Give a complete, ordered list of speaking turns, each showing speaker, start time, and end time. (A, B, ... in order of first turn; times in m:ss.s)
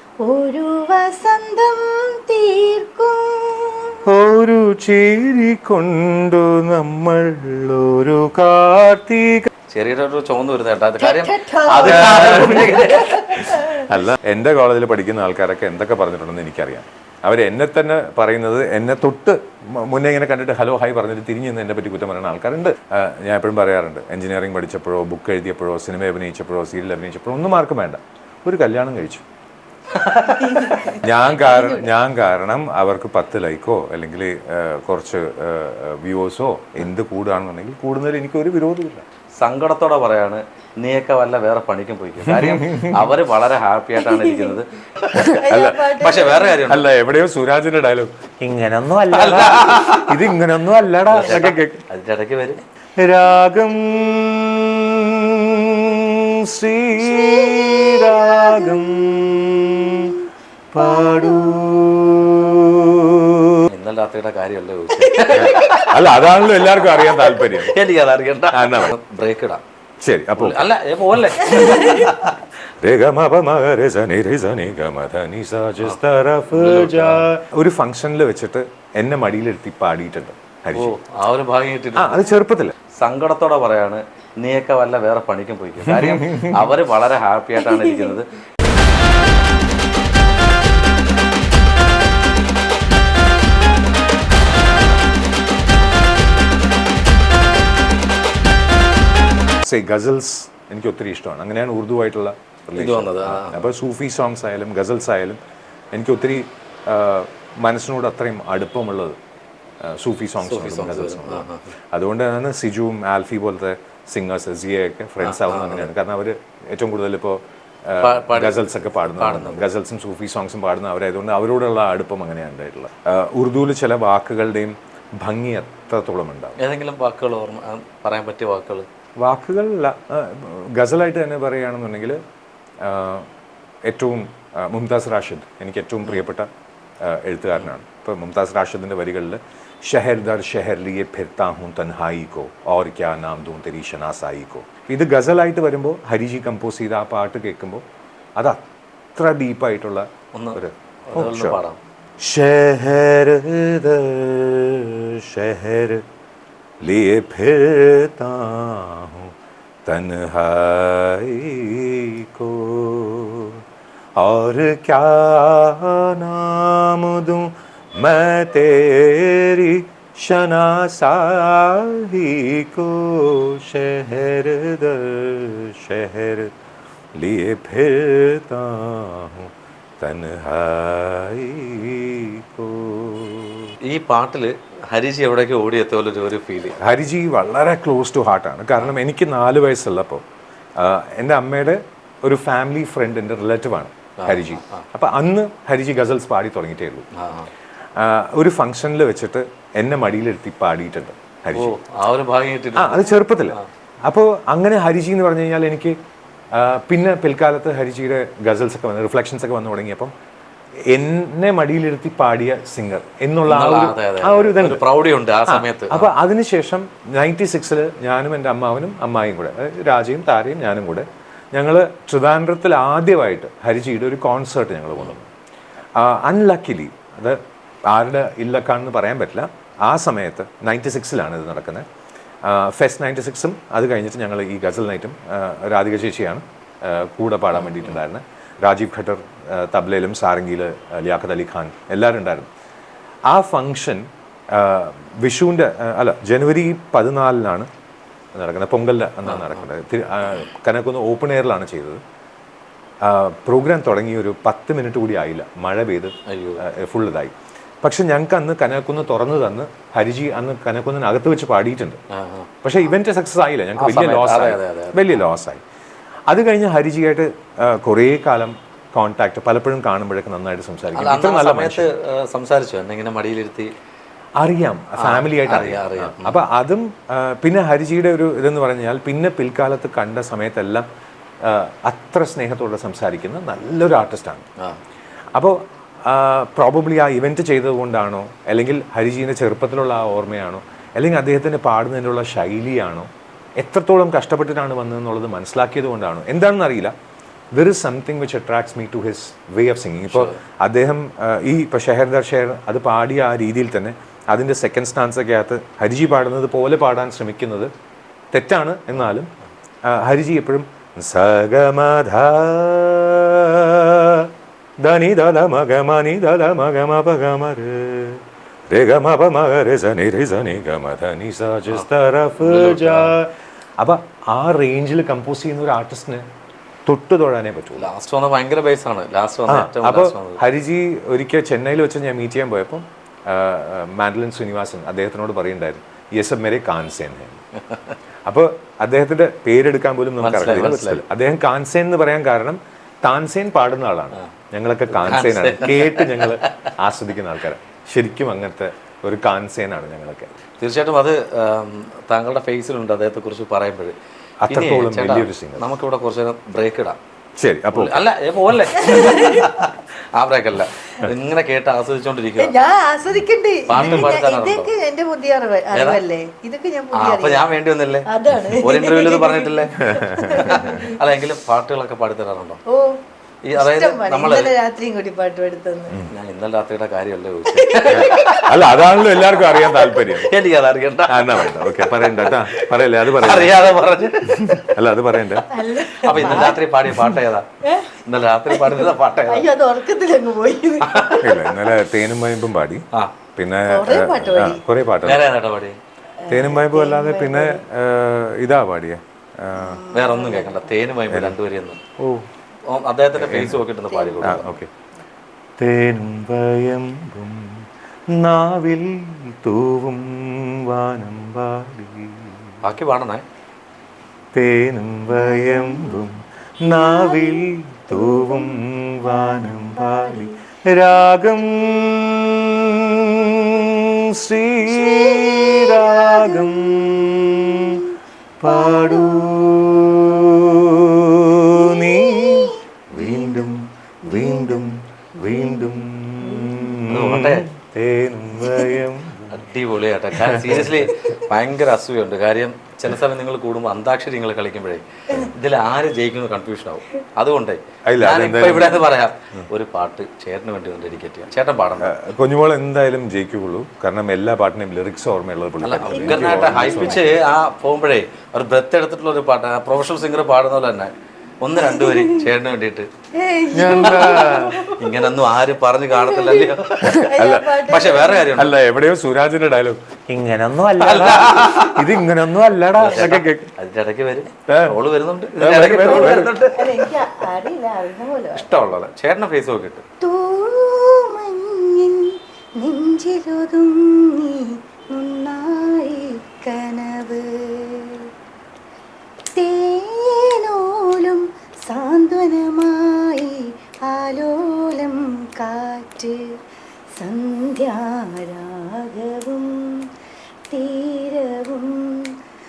0:00.2-0:04.0 A
0:04.0-0:09.5 B
0:09.7-0:13.4 C
0:11.0-0:13.9 A
0:11.7-0:29.2 B
0:29.9-0:30.9 C
0:30.4-0:31.9 A
0:30.9-0:39.0 B
0:39.4-0:45.2 C
0:42.3-0:43.2 B
0:44.0-0:44.6 A
0:45.1-0:51.8 B
0:45.2-0:46.6 A
0:46.0-0:46.9 C
0:49.1-0:50.2 C
0:51.1-0:52.6 C
0:53.0-1:00.1 B
0:57.0-1:01.7 A
1:00.7-1:03.6 B
1:03.7-1:09.6 C
1:04.9-1:05.9 A
1:05.4-1:07.8 B
1:08.5-1:08.9 B
1:10.0-1:12.2 B
1:10.4-1:12.4 C
1:11.5-1:12.0 A
1:12.8-1:21.0 B
1:16.5-1:17.3 C
1:20.7-1:22.3 C
1:22.0-1:22.8 B
1:22.9-1:28.3 C
1:25.9-1:26.7 B
1:39.6-1:45.4 B
1:42.8-1:43.7 C
1:45.9-1:49.2 B
1:49.8-2:06.6 B
1:50.4-1:51.7 C
1:55.2-1:55.9 C
1:58.0-1:58.6 C
1:59.2-1:59.6 C
2:06.6-2:08.8 C
2:09.2-2:12.2 B
2:12.8-2:13.3 B
2:13.8-2:16.5 B
2:17.0-2:27.8 B
2:29.2-2:31.6 B
2:30.3-2:31.8 C
2:32.2-2:36.0 B
2:36.8-2:39.3 B
2:39.8-2:43.6 B
2:44.2-2:56.5 B
2:57.2-3:03.8 B
3:03.8-3:06.8 C
3:06.8-3:10.2 B
3:10.8-3:17.1 B
3:14.2-3:14.8 C
3:17.2-3:17.5 C
3:18.0-3:21.7 B
3:21.5-3:23.6 C
3:22.8-3:26.0 B
3:26.5-3:30.1 B
3:30.9-3:34.8 B
3:33.5-3:36.1 C
3:35.4-3:45.3 B
3:46.0-3:51.8 B
3:52.4-4:02.5 B
3:57.6-3:58.0 C
4:03.3-4:07.7 B
4:08.3-4:12.0 B
4:09.2-4:09.6 C
4:13.0-4:22.0 B
4:16.3-4:16.6 C
4:22.1-4:22.5 C
4:22.6-4:25.6 B
4:23.8-4:25.2 C
4:26.3-4:31.9 B
4:30.9-4:33.7 C
4:34.4-4:40.9 B
4:35.0-4:36.5 C
4:41.4-4:44.4 B
4:45.4-4:56.9 B
4:57.5-5:07.7 B
5:00.1-5:00.4 C
5:08.3-5:09.3 B
5:09.9-5:26.2 B
5:21.7-5:23.2 C
5:26.9-5:27.9 B
5:27.8-5:30.4 C
5:29.5-5:37.4 B
5:38.2-5:50.3 B
5:40.2-5:41.0 C
5:45.0-5:46.5 C
5:50.6-5:53.9 C
5:54.4-5:55.6 B
5:54.5-5:57.0 C
5:57.4-5:58.1 B
5:57.7-6:02.5 C
5:58.8-5:59.6 A
6:02.4-6:07.5 A
6:03.7-6:04.7 C
6:03.8-6:04.1 B
6:05.7-6:06.0 C
6:06.9-6:12.6 C
6:08.1-6:11.0 A
6:09.8-6:10.8 B
6:12.7-6:13.0 A
6:13.4-6:14.5 C
6:13.6-6:15.9 A
6:16.1-6:24.7 C
6:17.5-6:18.6 A
6:18.0-6:20.3 B
6:21.1-6:23.7 B
6:24.4-6:25.5 B
6:25.5-6:26.6 A
6:25.9-6:27.5 C
6:26.1-6:27.2 B
6:27.6-6:28.0 A
6:28.0-6:29.5 C
6:28.5-6:31.6 A
6:30.8-6:31.2 C
6:31.2-6:32.8 B
6:33.4-6:35.3 B
6:33.7-6:34.6 A
6:35.0-6:35.8 C
6:36.2-6:37.6 A
6:36.3-6:39.8 B
6:39.6-6:40.7 A
6:39.9-6:41.8 C
6:41.1-6:41.4 B
6:42.0-6:42.3 B
6:42.6-6:44.4 C
6:43.2-6:43.6 B
6:43.9-6:44.5 A
6:44.2-6:44.7 B
6:45.6-6:52.6 B
6:52.6-6:53.2 C
6:54.3-7:07.8 B
6:55.1-6:56.0 A
6:56.7-7:00.4 A
7:04.6-7:09.5 A
7:08.4-7:19.4 B
7:11.5-7:16.8 A
7:16.9-7:17.5 C
7:18.4-7:18.8 A
7:19.3-7:31.9 C
7:20.2-7:20.9 B
7:27.9-7:28.8 B
7:31.8-7:37.2 B
7:35.6-7:42.9 C
7:35.9-7:37.0 A
7:41.6-7:42.2 A
7:43.1-7:45.2 A
7:43.5-7:44.7 B
7:44.8-7:47.1 C
7:45.9-7:48.3 A
7:46.8-7:53.5 B
7:47.6-7:48.6 C
7:50.8-7:52.0 C
7:52.8-7:56.9 C
7:54.5-7:54.8 B
7:55.4-7:56.3 B
7:55.9-7:58.5 A
7:58.4-7:59.8 C
8:00.0-8:08.1 A
8:09.3-8:16.2 A
8:17.0-8:19.8 A
8:20.5-8:22.1 A